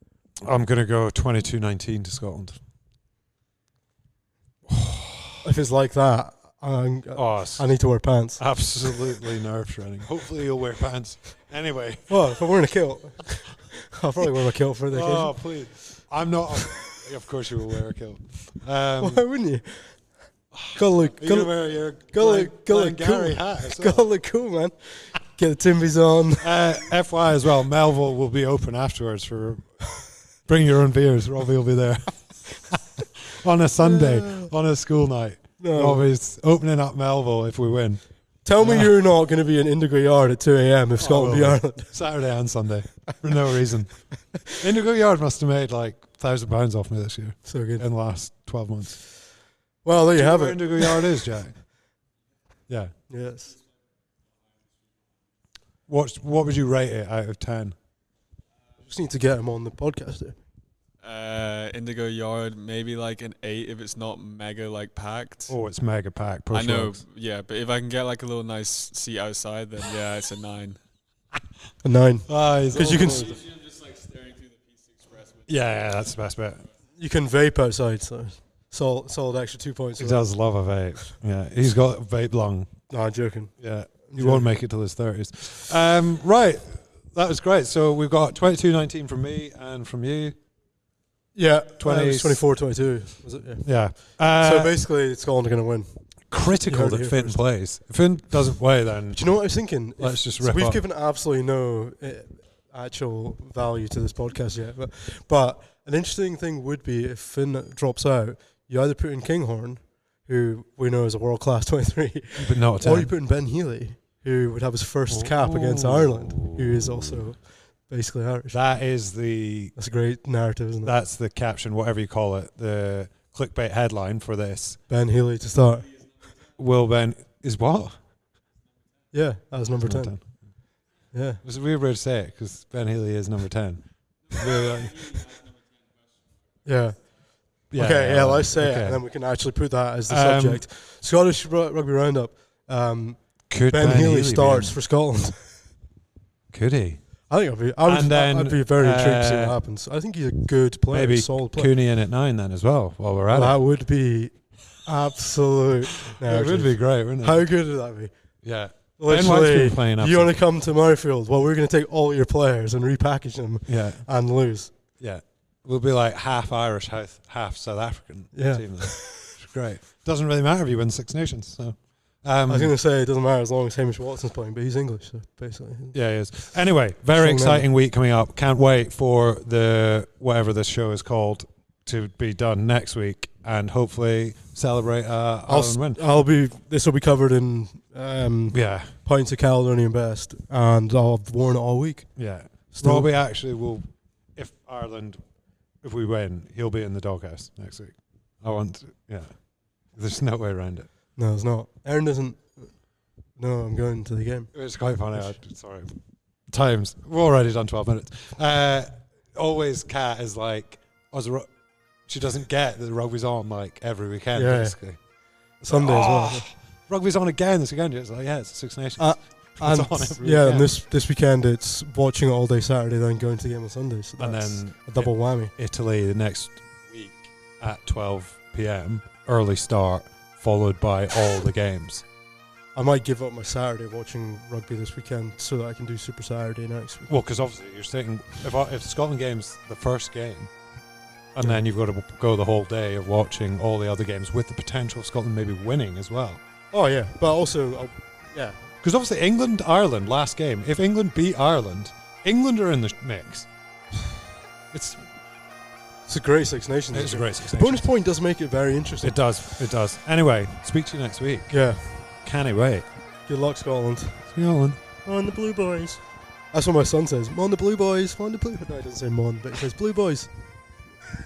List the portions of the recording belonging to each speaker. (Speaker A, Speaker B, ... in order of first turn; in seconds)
Speaker A: 0.4-2.6, 4.7-5.4, 7.1-7.7, 8.4-12.1, 14.9-19.2, 20.5-24.1, 26.4-29.7, 30.4-38.0, 38.6-38.9, 41.0-49.0, 50.1-51.6, 52.7-52.9, 55.9-57.7, 65.5-67.0, 72.3-73.3, 75.5-76.6, 80.0-82.7, 83.6-90.3, 91.8-92.4, 93.6-94.7, 96.3-99.3, 100.0-100.8, 112.3-113.1, 115.1-117.1, 118.5-119.7, 120.8-124.8, 126.6-128.0, 129.8-130.2, 131.4-135.2, 137.7-139.0, 140.1-140.6, 143.5-144.7, 146.5-147.0, 147.8-149.6, 150.9-153.6, 156.1-157.4, 158.4-160.4, 163.7-164.0, 165.0-172.7, 175.9-186.0, 188.5-188.9, 192.2-195.2, 195.8-200.9, 204.5-211.5, 212.1-215.0, 215.7-220.7, 224.2-232.0, 237.1-240.5, 241.3-246.4, 248.8-253.5, 254.7-255.0, 256.9-257.9, 259.0-262.9, 264.3-264.8
Speaker B: 5.4-8.4, 12.1-15.3, 19.0-20.0, 20.7-26.5, 33.8-34.5, 35.6-36.0, 38.4-42.0, 47.5-47.8, 49.8-51.2, 53.1-53.5, 58.8-60.4, 71.8-73.5, 77.0-80.3, 82.9-84.5, 91.3-96.0, 96.6-97.4, 99.1-118.6, 119.8-120.9, 124.9-125.9, 129.1-130.1, 131.1-131.4, 136.6-137.0, 137.7-145.6, 147.3-151.7, 153.3-154.3, 154.8-158.1, 159.0-164.7, 168.3-169.4, 172.5-175.9, 177.2-177.7, 185.5-192.2, 192.7-193.1, 201.2-202.7, 203.4-204.5, 214.3-214.8, 215.6-216.5, 219.0-225.5, 232.7-237.1, 246.7-248.6, 256.1-259.2, 261.5-261.9, 263.3-264.3, 265.0-266.0, 266.5-270.3
Speaker C: 61.0-65.5, 66.5-70.8, 73.7-74.5